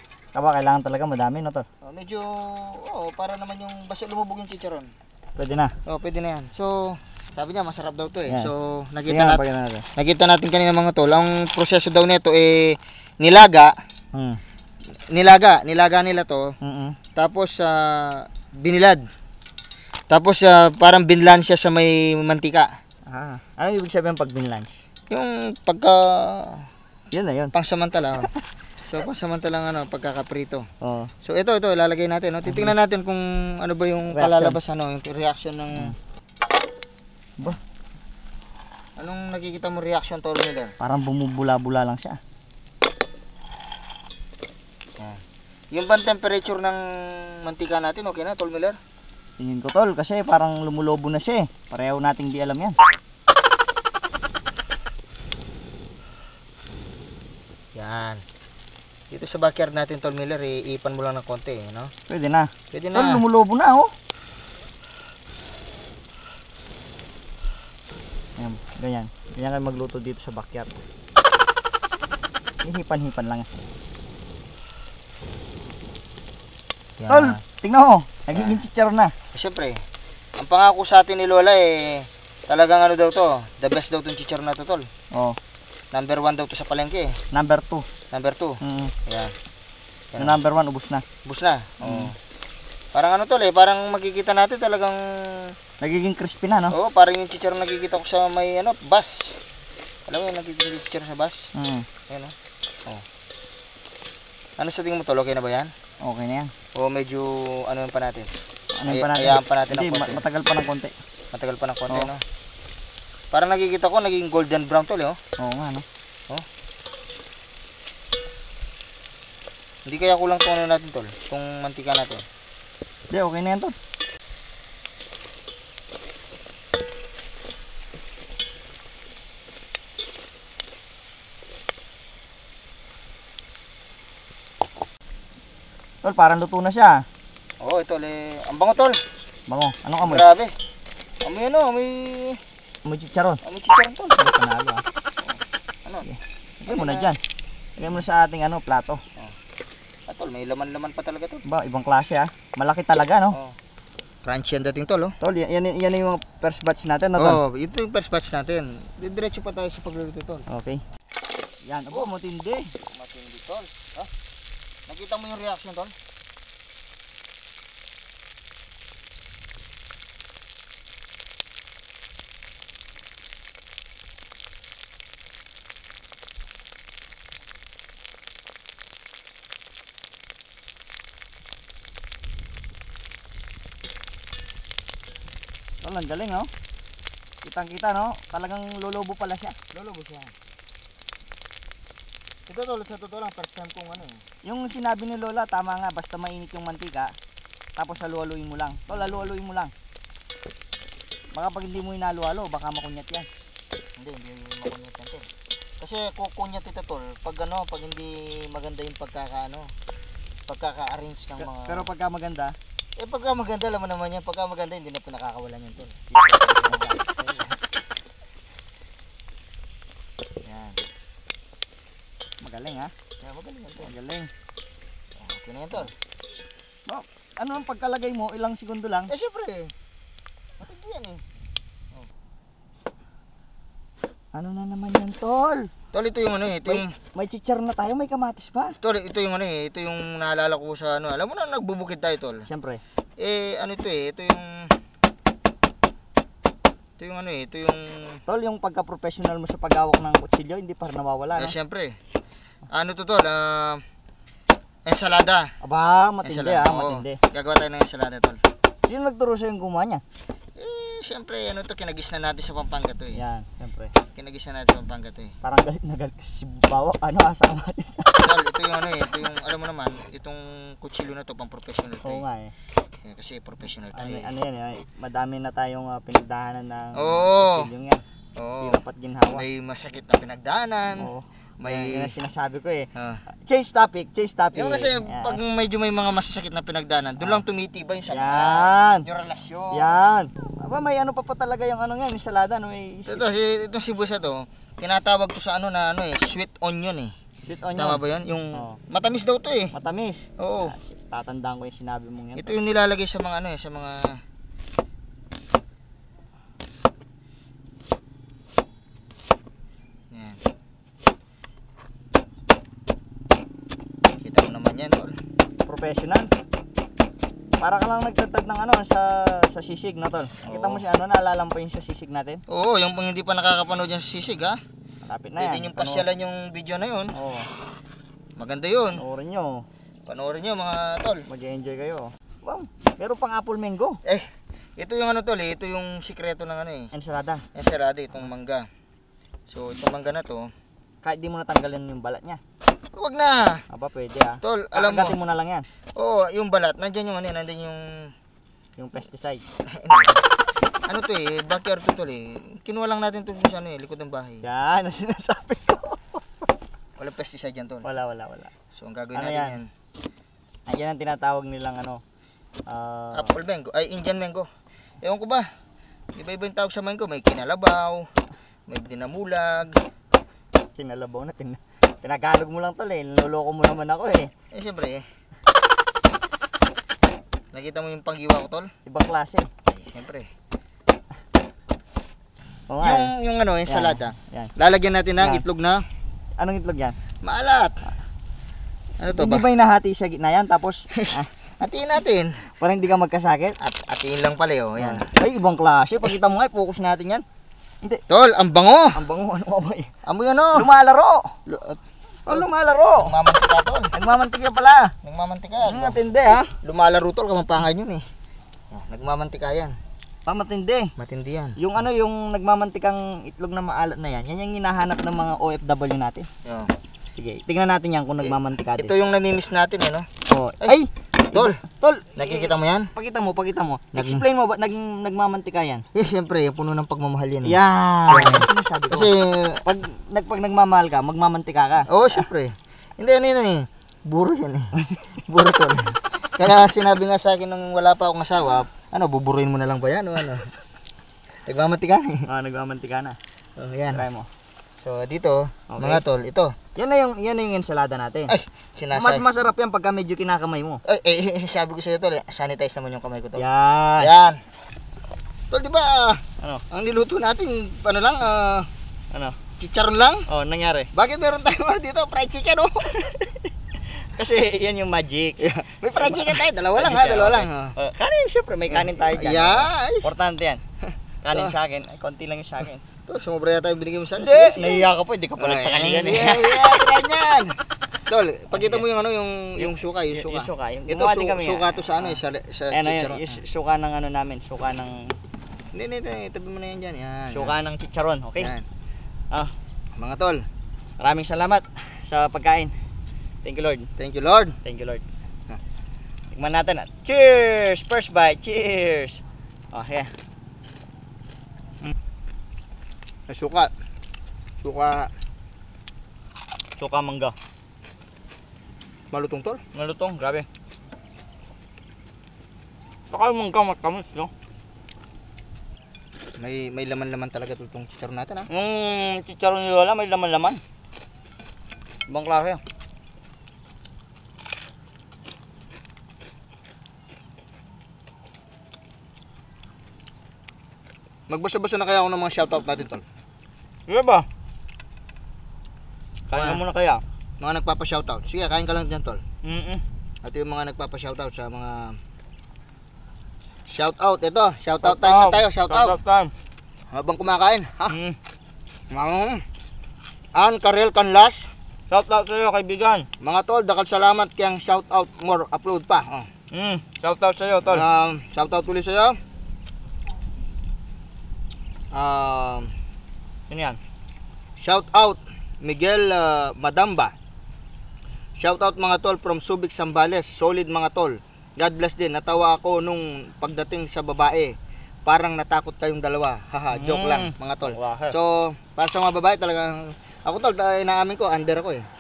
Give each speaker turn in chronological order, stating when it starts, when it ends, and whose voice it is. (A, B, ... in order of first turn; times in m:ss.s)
0:00.3-0:01.7 A
0:01.8-0:04.9 B
0:05.4-0:05.8 A
0:05.8-0:13.7 B
0:09.1-0:09.9 A
0:14.1-0:14.4 A
0:15.1-0:16.5 B
0:16.6-0:17.0 A
0:17.2-0:19.0 B
0:20.1-0:22.7 B
0:23.1-0:24.8 A
0:25.1-0:26.7 B
0:27.1-0:27.5 A
0:27.5-0:28.3 B
0:28.9-0:30.7 B
0:30.8-0:31.1 A
0:31.2-0:35.9 B
0:32.4-0:32.7 A
0:34.1-0:34.6 A
0:39.0-0:40.7 B
0:40.8-0:42.2 A
0:45.7-0:48.8 B
0:49.4-0:52.8 A
0:57.7-0:58.2 B
0:59.1-1:01.9 B
1:02.1-1:03.9 A
1:02.7-1:03.2 B
1:08.4-1:10.8 A
1:12.6-1:13.5 A
1:17.0-1:17.4 B
1:17.1-1:19.1 A
1:18.3-1:18.6 B
1:19.3-1:19.8 B
1:20.4-1:24.9 B
1:25.9-1:27.2 B
1:27.3-1:27.8 A
1:28.1-1:29.3 B
1:28.6-1:28.9 A
1:30.1-1:30.4 B
1:30.2-1:31.0 A
1:31.2-1:32.1 B
1:31.8-1:32.1 A
1:32.9-1:35.5 B
1:35.8-1:36.8 A
1:36.7-1:39.4 B
1:40.1-1:41.5 B
1:41.5-1:41.9 A
1:42.1-1:42.3 B
1:44.6-1:45.7 B
1:46.0-1:46.5 A
1:46.8-1:48.3 B
1:48.8-1:50.9 A
1:48.9-1:50.2 B
1:51.3-1:52.2 B
1:53.3-1:55.2 B
1:55.4-1:55.8 A
1:59.8-2:02.2 B
2:03.1-2:03.8 A
2:16.0-2:17.0 A
2:17.6-2:19.0 B
2:19.5-2:20.2 A
2:20.0-2:20.5 B
2:21.2-2:22.4 B
2:22.8-2:23.4 A
2:23.4-2:24.2 B
2:24.2-2:24.8 A
2:25.2-2:26.1 B
2:26.0-2:27.2 A
2:26.7-2:27.1 B
2:27.8-2:29.0 A
2:30.1-2:31.4 B
2:31.4-2:33.4 A
2:34.2-2:35.2 B
2:35.2-2:37.4 A
2:37.2-2:40.4 B
2:40.5-2:40.8 A
2:41.7-2:42.7 A
2:42.8-2:44.1 B
2:44.9-2:45.9 B
3:05.8-3:06.5 A
3:07.4-3:09.6 A
3:09.7-3:10.3 B
3:12.5-3:14.2 B
3:14.4-3:17.1 A
3:17.8-3:19.7 A
3:21.3-3:23.3 A
3:24.0-3:25.3 B
3:25.8-3:29.7 B
3:30.5-3:31.9 B
3:31.4-3:32.6 A
3:33.0-3:36.9 B
3:36.1-3:37.5 A
3:40.4-3:40.8 B
3:42.4-3:42.9 A
3:43.2-3:43.9 B
3:43.8-3:44.3 A
3:45.2-3:45.9 B
3:46.9-3:49.1 A
3:49.1-3:49.7 B
3:50.6-3:51.2 B
3:54.3-3:55.7 A
3:55.9-3:56.9 B
3:56.6-3:58.8 A
3:58.8-4:02.5 B
4:02.5-4:02.8 A
4:03.2-4:04.7 B
4:07.0-4:08.2 B
4:08.3-4:11.6 A
4:11.4-4:12.0 B
4:12.7-4:13.8 B
4:14.9-4:15.5 B
4:15.6-4:17.2 A
4:16.2-4:18.4 B
4:18.9-4:20.0 A
4:20.6-4:23.2 B
4:23.1-4:23.9 A
4:24.1-4:25.3 B
4:25.4-4:28.2 A
4:28.2-4:32.2 B
4:32.0-4:32.5 A
4:33.0-4:34.3 B
4:33.9-4:38.0 A
4:36.9-4:37.7 B
4:38.4-4:42.1 B
4:38.6-4:39.4 A
4:40.9-4:45.4 A
4:42.9-4:43.2 B
4:44.5-4:49.9 B
4:48.1-4:49.1 A
4:49.7-4:53.3 A
4:53.1-4:57.1 B
4:57.4-4:58.0 A
4:57.8-4:59.7 B
4:58.6-4:58.8 A
4:59.7-5:02.6 A
5:00.4-5:00.8 B
5:02.4-5:04.2 B
5:10.1-5:10.4 B
5:14.2-5:15.2 B
5:15.6-5:16.3 A
5:17.6-5:22.4 A
5:20.4-5:20.8 B
5:22.5-5:24.6 B
5:25.0-5:26.0 A
5:25.4-5:27.1 B
5:27.1-5:27.5 A
5:28.4-5:29.0 B
5:28.9-5:29.6 A
5:30.1-5:31.2 B
5:31.3-5:34.0 A
5:34.0-5:36.9 B
5:36.9-5:37.4 A
5:37.6-5:38.7 B
5:39.5-5:40.5 B
5:41.0-5:42.4 A
5:42.9-5:43.6 B
5:43.7-5:45.6 A
5:44.4-5:45.2 B
5:46.0-5:48.1 B
5:48.8-5:49.4 A
5:49.7-5:50.2 B
5:50.9-5:54.4 B
5:54.4-5:56.2 A
5:57.0-5:57.9 B
5:57.8-5:58.5 A
5:58.7-5:59.7 B
5:59.1-5:59.6 A
6:00.7-6:02.0 A
6:02.7-6:03.3 A
6:03.1-6:04.5 B
6:05.0-6:05.5 B
6:06.1-6:08.1 B
6:08.7-6:09.8 B
6:10.8-6:14.3 A
6:14.5-6:15.0 B
6:17.5-6:18.7 B
6:18.9-6:19.5 A
6:19.7-6:20.3 B
6:22.7-6:23.1 A
6:22.8-6:25.8 B
6:23.6-6:24.5 A
6:25.2-6:25.4 A
6:26.4-6:27.0 A
6:27.2-6:27.8 B
6:29.0-6:29.4 B
6:29.1-6:31.3 A
6:30.9-6:32.3 B
6:32.6-6:33.6 A
6:33.6-6:35.1 B
6:34.8-6:37.2 A
6:38.1-6:39.0 B
6:38.9-6:39.9 A
6:40.0-6:40.7 B
6:40.6-6:41.3 A
6:41.4-6:42.5 B
6:42.2-6:43.1 A
6:43.0-6:43.9 B
6:43.9-6:44.9 A
6:45.0-6:48.0 B
6:45.6-6:46.5 A
6:48.7-6:49.8 B
6:50.2-6:50.9 A
6:51.0-6:51.6 B
6:51.6-6:56.3 A
6:56.4-6:56.7 B
6:57.2-6:58.9 A
6:58.2-7:00.1 B
7:00.3-7:05.8 A
7:01.3-7:01.6 B
7:02.2-7:02.9 B
7:03.9-7:04.2 B
7:05.9-7:07.6 B
7:07.4-7:09.1 A
7:08.1-7:09.6 B
7:09.6-7:12.2 A
7:11.9-7:14.7 B
7:14.8-7:15.2 A
7:15.2-7:20.5 B
7:21.4-7:22.2 B
7:22.2-7:23.2 A
7:23.6-7:24.0 B
7:23.9-7:24.3 A
7:24.8-7:26.6 B
7:25.7-7:26.0 A
7:26.8-7:28.3 A
7:28.3-7:29.2 B
7:28.9-7:30.8 A
7:30.8-7:33.4 B
7:33.4-7:34.1 A
7:34.0-7:34.4 B
7:35.5-7:38.7 B
7:39.1-7:39.4 A
7:39.6-7:40.2 B
7:40.3-7:40.9 A
7:40.9-7:43.0 B
7:43.0-7:43.3 A
7:44.1-7:45.4 A
7:45.4-7:47.8 B
7:46.0-7:50.6 A
7:48.7-7:50.1 B
7:51.2-7:52.8 A
7:53.1-7:57.5 B
7:54.2-7:56.8 A
7:58.1-8:03.4 B
7:58.5-7:58.8 A
7:59.6-8:02.2 A
8:02.7-8:05.1 A
8:05.7-8:07.5 B
8:07.3-8:08.5 A
8:08.4-8:08.6 B
8:10.0-8:10.5 B
8:11.0-8:12.7 A
8:13.4-8:13.9 A
8:14.0-8:14.6 B
8:14.6-8:15.0 A
8:16.3-8:20.1 A
8:23.3-8:23.7 B
8:24.6-8:25.1 B
8:26.8-8:27.4 A
8:29.1-8:29.6 B
8:29.8-8:30.5 A
8:33.1-8:34.3 A
8:36.4-8:38.5 B
8:38.5-8:40.6 A
8:42.1-8:42.6 A
8:51.3-8:53.0 B
8:53.9-8:54.2 A
8:56.3-8:57.0 A
8:56.3-8:56.6 B
8:57.4-8:59.2 B
8:59.4-8:59.8 A
9:00.2-9:02.0 B
9:03.7-9:06.0 B
9:04.8-9:06.3 A
9:06.9-9:08.0 B
9:07.9-9:08.2 A
9:08.9-9:09.4 B
9:10.4-9:11.5 B
9:11.9-9:13.1 A
9:13.2-9:16.3 B
9:16.5-9:17.8 A
9:17.6-9:19.2 B
9:21.9-9:22.7 B
9:23.5-9:23.8 A
9:24.6-9:27.1 B
9:28.4-9:41.9 B
9:36.7-9:38.2 A